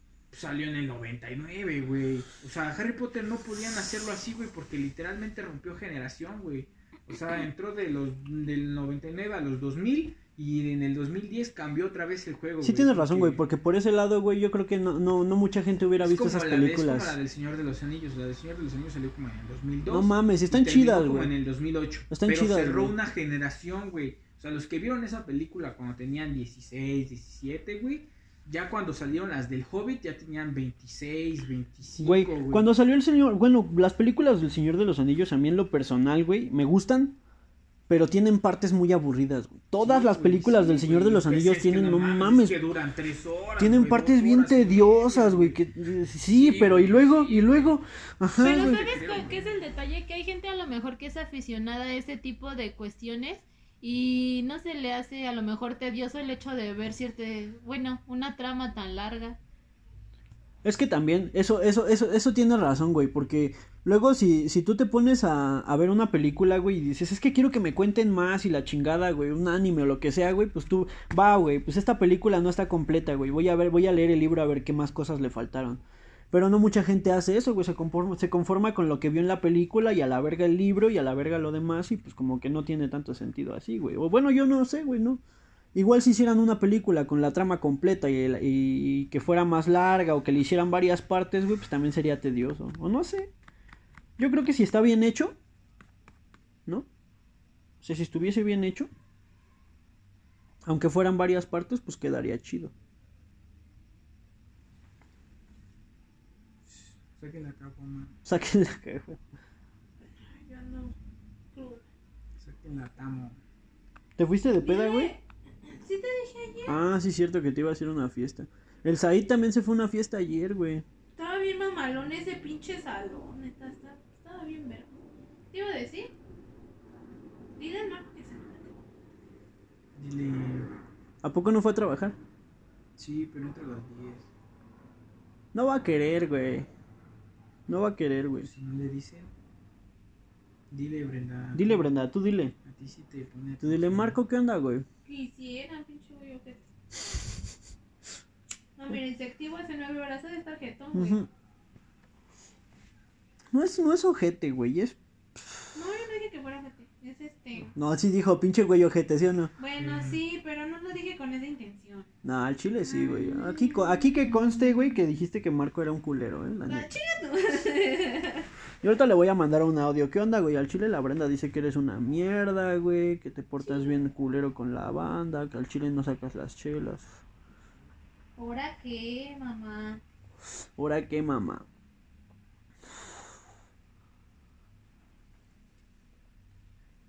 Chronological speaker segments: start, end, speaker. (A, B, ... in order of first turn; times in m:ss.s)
0:00.3-0:13.4 A
0:12.6-0:17.2 B
0:16.0-0:32.7 A
0:19.9-0:21.3 B
0:22.1-0:22.9 B
0:32.0-0:37.2 B
0:37.9-0:42.6 B
0:39.8-0:45.6 A
0:43.6-0:48.9 B
0:46.3-0:47.8 A
0:48.3-0:49.6 A
0:48.4-0:59.4 C
1:00.6-1:25.2 B
1:25.7-1:33.3 B
1:34.2-1:35.4 B
1:37.8-1:38.9 B
1:40.6-1:42.7 B
1:46.7-1:48.1 A
1:48.2-1:49.2 B
1:50.2-1:50.9 C
1:51.5-1:51.8 C
1:52.4-1:53.4 A
1:54.2-1:55.1 B
1:54.5-1:55.2 C
1:55.7-1:56.8 C
1:56.6-2:00.8 B
2:01.2-2:04.9 C
2:05.5-2:06.1 C
2:07.6-2:08.8 C
2:10.0-2:10.7 A
2:11.2-2:12.2 B
2:13.0-2:14.3 A
2:15.5-2:16.7 B
2:17.7-2:18.5 B
2:18.4-2:19.3 A
2:20.7-2:21.9 A
2:21.5-2:22.5 B
2:22.6-2:24.2 A
2:23.6-2:24.8 B
2:25.0-2:26.6 C
2:28.8-2:31.3 C
2:30.9-2:31.3 B
2:33.5-2:35.0 B
2:35.7-2:37.7 C
2:37.7-2:39.5 B
2:39.6-2:42.1 C
2:39.8-2:40.2 A
2:42.2-2:46.9 B
2:42.8-2:44.9 C
2:46.6-2:48.5 C
2:48.8-2:57.2 B
2:53.6-2:54.0 C
2:58.4-3:00.0 C
3:00.8-3:01.6 B